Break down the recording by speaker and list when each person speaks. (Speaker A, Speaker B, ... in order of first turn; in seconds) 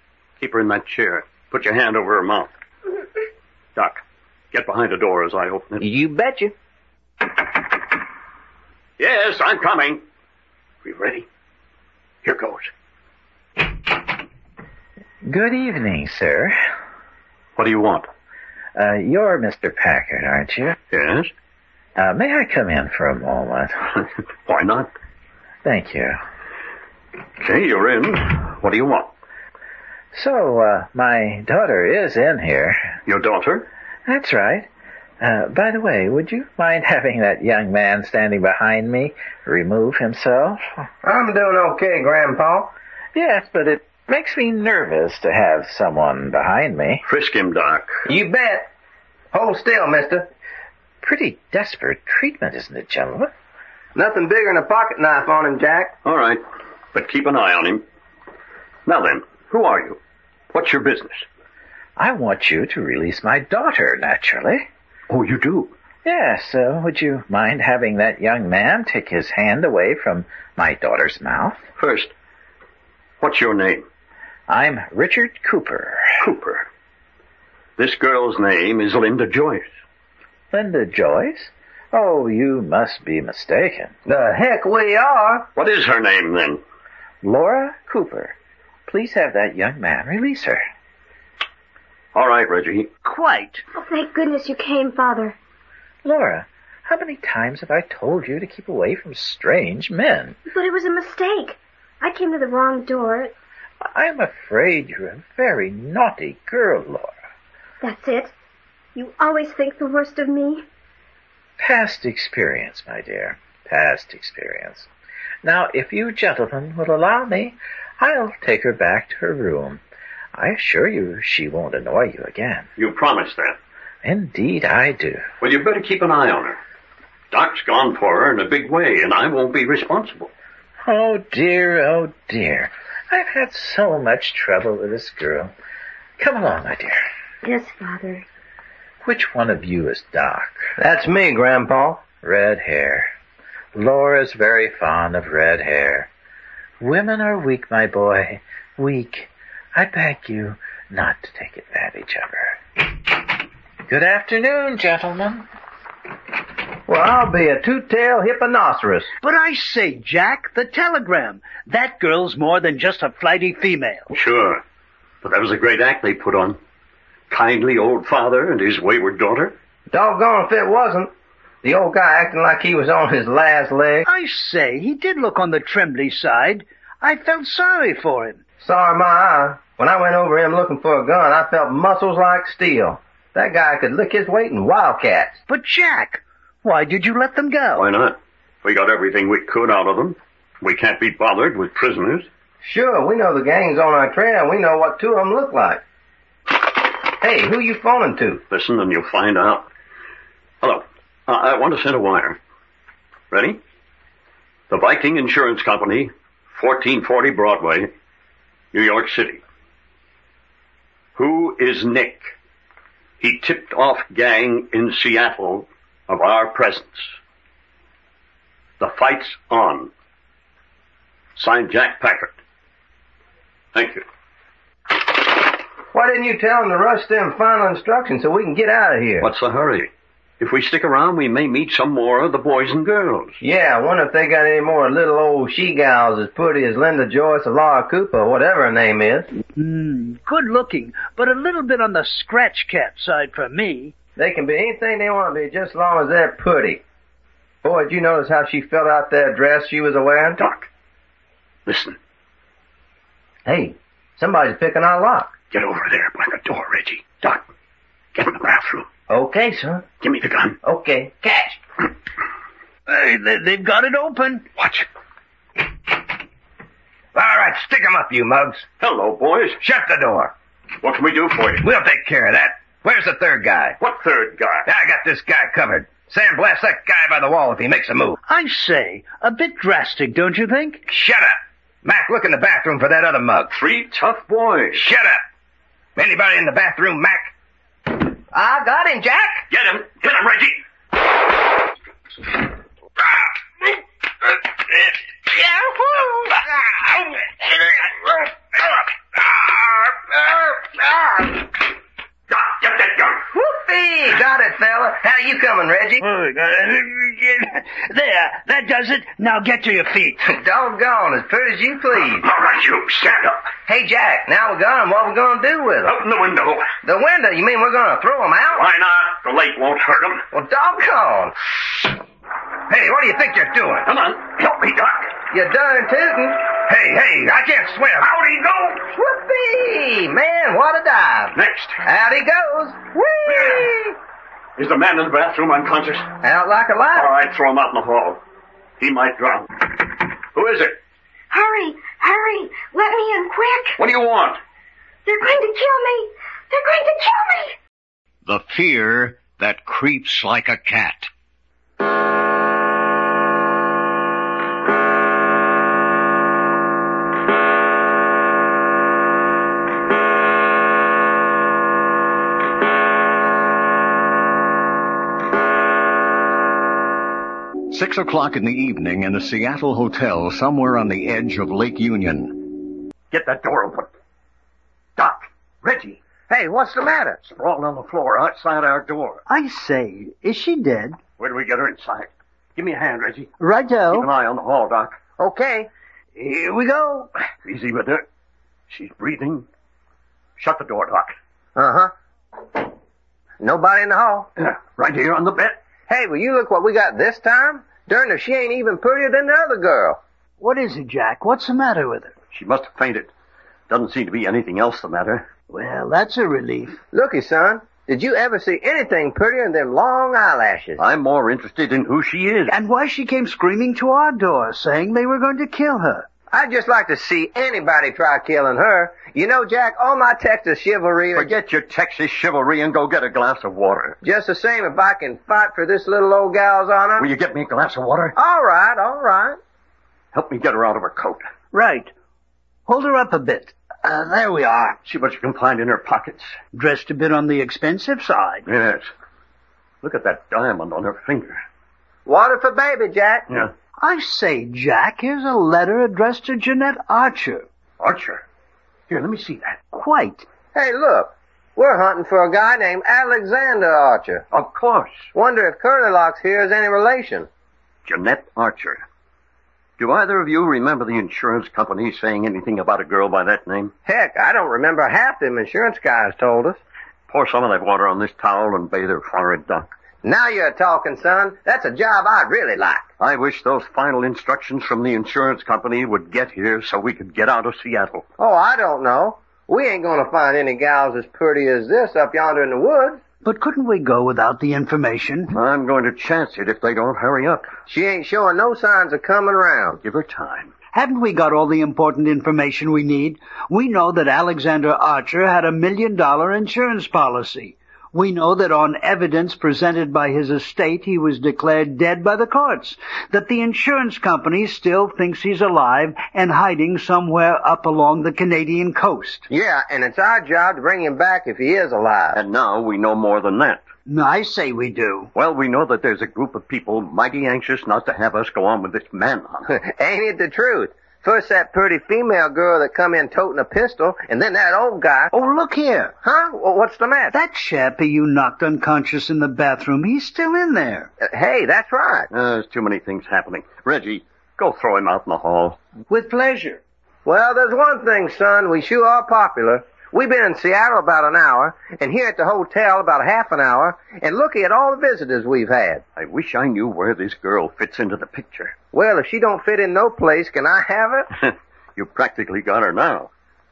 Speaker A: 0.4-2.5, 3.8-5.8, 9.0-10.0, 10.8-11.3, 12.2-12.7, 17.6-18.1, 20.9-21.3, 24.4-24.9, 27.4-29.1, 33.0-33.7, 47.0-47.9, 56.0-56.4, 56.9-57.8, 58.9-60.0, 60.5-61.2, 65.1-65.7, 71.8-72.1, 73.2-73.8, 76.2-76.7, 77.8-79.7, 85.5-86.6, 92.1-92.9, 122.8-123.6, 125.4-126.6, 127.3-130.3, 164.1-164.6, 165.2-166.6, 167.3-169.5, 187.8-192.3, 198.5-199.7, 200.6-202.4, 203.3-203.6, 204.7-207.9, 208.7-209.4, 211.2-212.3, 213.2-217.1, 218.8-219.9, 221.3-222.3, 223.7-224.0, 229.2-233.4, 250.4-250.7, 251.7-252.0, 255.5-257.4, 258.1-258.9, 260.0-260.6, 264.6-264.9, 268.8-269.6, 270.8-271.7, 273.8-274.6, 283.5-284.9, 289.5-290.6, 302.3-303.2, 312.2-313.5, 315.8-316.6, 318.6-320.2, 323.8-325.2, 328.0-328.9, 331.3-331.8, 333.2-333.7, 334.6-336.1, 336.9-338.2, 338.8-340.8, 343.8-344.4, 373.1-373.9, 375.0-376.0, 377.2-379.2, 381.2-383.3, 383.9-385.0, 387.4-388.0, 388.7-389.4, 390.4-391.1, 394.4-395.6, 402.3-403.1, 403.7-405.3, 410.8-412.5, 421.1-424.0, 427.0-428.1, 430.1-431.3, 434.8-436.4, 438.4-438.9, 439.8-441.4, 447.8-448.2, 448.9-449.6, 454.3-455.1, 457.9-458.8, 459.8-463.7, 467.1-469.7, 473.0-478.0, 485.3-487.5, 489.8-490.5, 512.1-513.6, 515.1-519.5, 532.1-535.6, 546.0-548.5, 551.2-553.1
Speaker B: 5.8-6.5, 41.0-42.7, 48.1-48.7, 49.3-50.3, 53.9-55.9, 84.0-85.5, 140.8-142.0, 156.9-159.1, 169.9-171.1, 171.6-174.1, 178.6-185.4, 192.6-195.8, 197.0-198.4, 225.9-229.3, 233.4-239.3, 244.2-246.8, 247.6-250.4, 253.4-255.3, 259.1-259.8, 260.6-261.6, 267.1-268.6, 269.6-270.3, 271.6-273.8, 274.6-278.2, 280.9-283.5, 284.7-285.2, 285.9-287.3, 287.9-289.4, 295.3-296.5, 300.5-301.3, 303.3-306.0, 310.2-312.3, 313.7-316.0, 316.8-318.6, 320.3-321.9, 322.7-323.9, 325.3-328.1, 328.9-333.9, 336.2-337.1, 376.3-377.2, 385.2-385.7, 391.6-391.9, 393.4-394.3, 395.9-400.0, 406.9-410.8, 416.3-421.3, 424.0-427.1, 428.1-429.4, 442.1-443.3, 450.5-454.2, 455.1-457.3, 463.9-466.6, 470.0-472.8, 478.2-483.0, 487.7-489.8, 509.3-512.2, 519.5-525.1, 526.0-527.1, 531.0-532.1, 537.0-545.8, 548.7-551.1
Speaker C: 15.2-16.6, 18.7-20.8, 21.9-24.0, 25.6-26.2, 30.1-33.0, 34.0-34.7, 35.2-40.9, 43.1-47.0, 51.0-53.3, 62.0-64.7, 66.0-71.6, 74.5-76.2, 80.5-83.9, 87.2-88.3, 88.9-90.6, 96.0-100.4, 103.8-107.1, 111.6-114.9, 115.4-119.8, 120.3-122.7, 124.0-125.2, 130.8-135.5, 136.2-137.0, 139.0-140.7, 142.2-143.1, 143.7-146.1, 146.8-153.2, 153.9-155.5
Speaker D: 93.0-93.6, 159.2-164.1, 174.1-178.4, 185.5-187.8, 239.6-243.9, 262.9-264.4, 278.3-280.8, 306.0-310.2, 379.3-381.0, 383.4-384.1, 386.2-387.1, 400.4-402.1, 405.5-406.8, 412.5-416.1, 431.5-431.9, 432.7-434.8, 436.5-438.4, 443.8-447.4, 449.7-450.2, 483.2-485.4, 490.7-509.3, 513.9-515.1, 525.1-525.9, 527.1-530.9, 535.9-536.6
Speaker E: 93.7-95.3, 100.5-103.3, 107.8-108.3, 108.9-110.6, 137.4-138.2, 341.3-343.8, 345.0-347.6
Speaker F: 348.2-351.1, 367.7-372.6